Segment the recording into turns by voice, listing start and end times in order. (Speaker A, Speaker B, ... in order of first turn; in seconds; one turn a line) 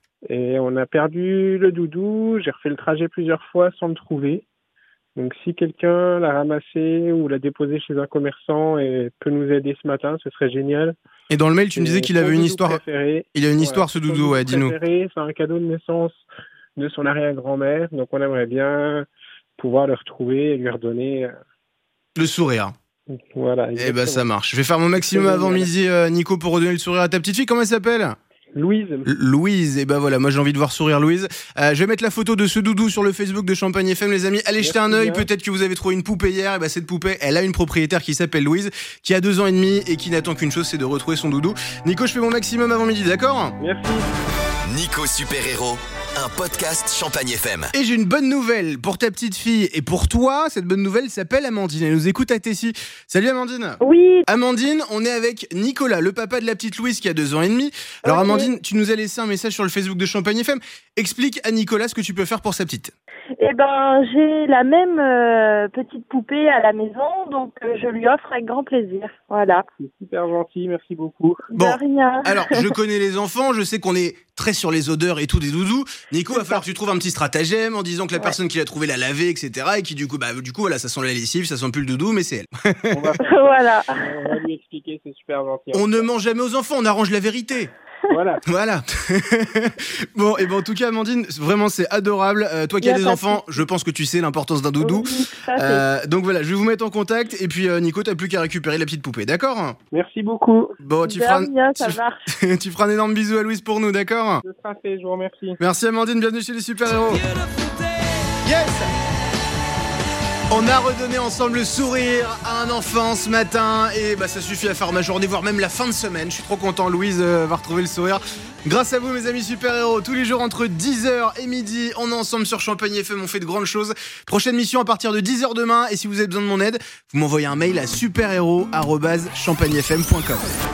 Speaker A: 0.2-4.5
Speaker A: 5.2-11.0
Speaker B: 11.3-12.8
Speaker A: 11.8-19.1
Speaker B: 13.3-14.8
Speaker A: 19.6-21.3
Speaker B: 22.1-22.7
Speaker A: 23.1-24.3
Speaker B: 23.8-28.1
Speaker A: 25.0-25.7
Speaker A: 28.5-29.1
Speaker B: 29.1-43.5
Speaker A: 34.6-35.3
Speaker A: 43.6-44.1
Speaker C: 44.7-47.7
Speaker B: 47.7-62.9
Speaker D: 53.8-54.3
Speaker D: 58.1-58.5
Speaker D: 63.4-69.7
Speaker A: 69.8-71.5
Speaker D: 71.5-72.7
Speaker B: 71.5-83.1
Speaker D: 76.3-76.6
Speaker A: 82.9-86.1
Speaker D: 83.2-84.3
Speaker B: 85.7-87.7
Speaker A: 88.1-88.4
Speaker B: 88.5-99.8
Speaker D: 92.8-93.6
Speaker D: 94.8-95.8
Speaker A: 99.9-100.8
Speaker B: 100.8-104.4
Speaker D: 101.0-102.2
Speaker A: 104.4-105.6
Speaker B: 105.6-107.3
Speaker B: 108.4-108.9
Speaker B: 110.5-130.5